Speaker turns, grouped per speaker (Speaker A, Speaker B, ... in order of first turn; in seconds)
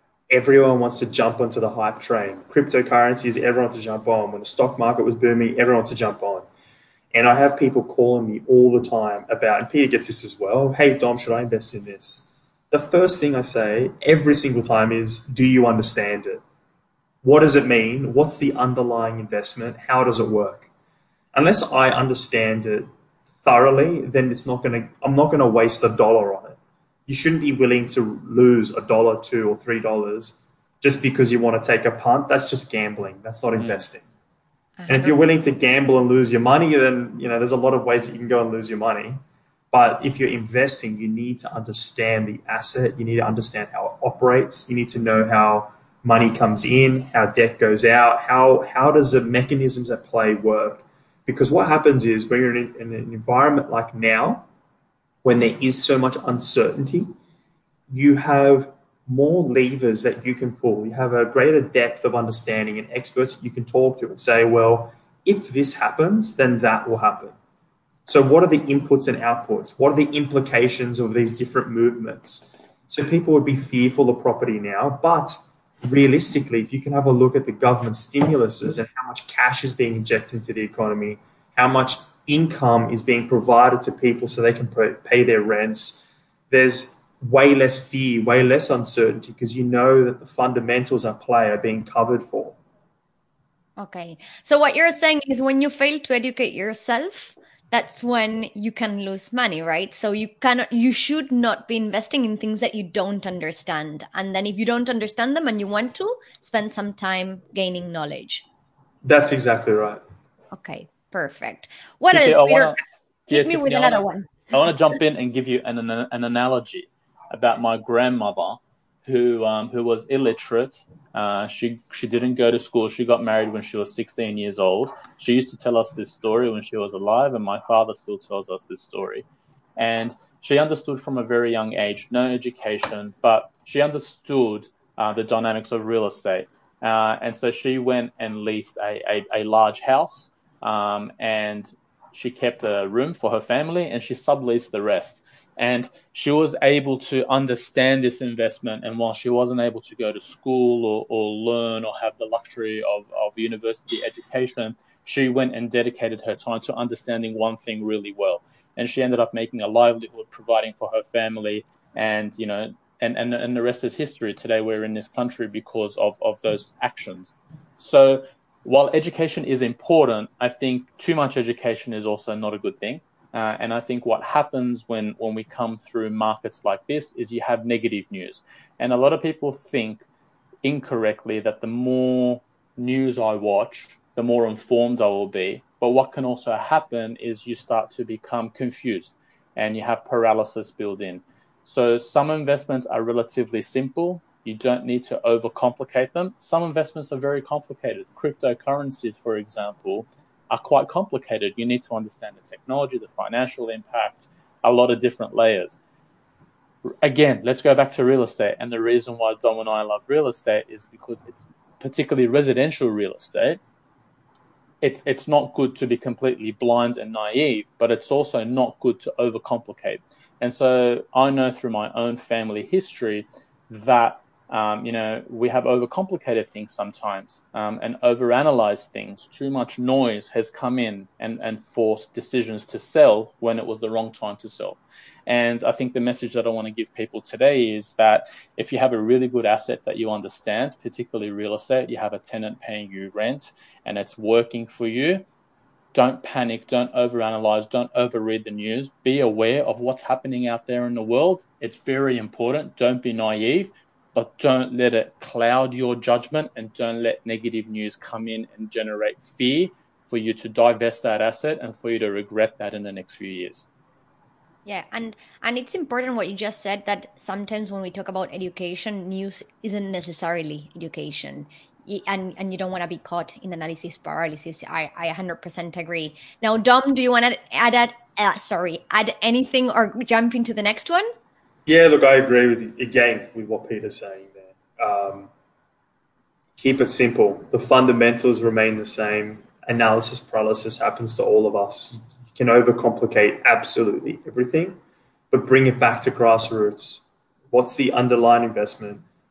Speaker A: 0.3-6.5, 7.1-16.4, 17.2-20.7, 21.3-22.9, 23.4-34.0, 34.9-39.2, 39.7-54.5, 55.2-57.1, 57.9-67.3, 68.1-92.6, 109.0-110.0, 281.7-285.3, 286.6-294.8, 295.3-299.0
Speaker B: 33.6-33.8, 112.1-129.3, 129.8-180.1, 180.6-205.8, 207.0-213.6, 214.8-245.3, 245.9-263.7
Speaker C: 34.8-35.1, 93.8-108.5, 110.5-112.8, 113.3-114.5, 264.7-281.1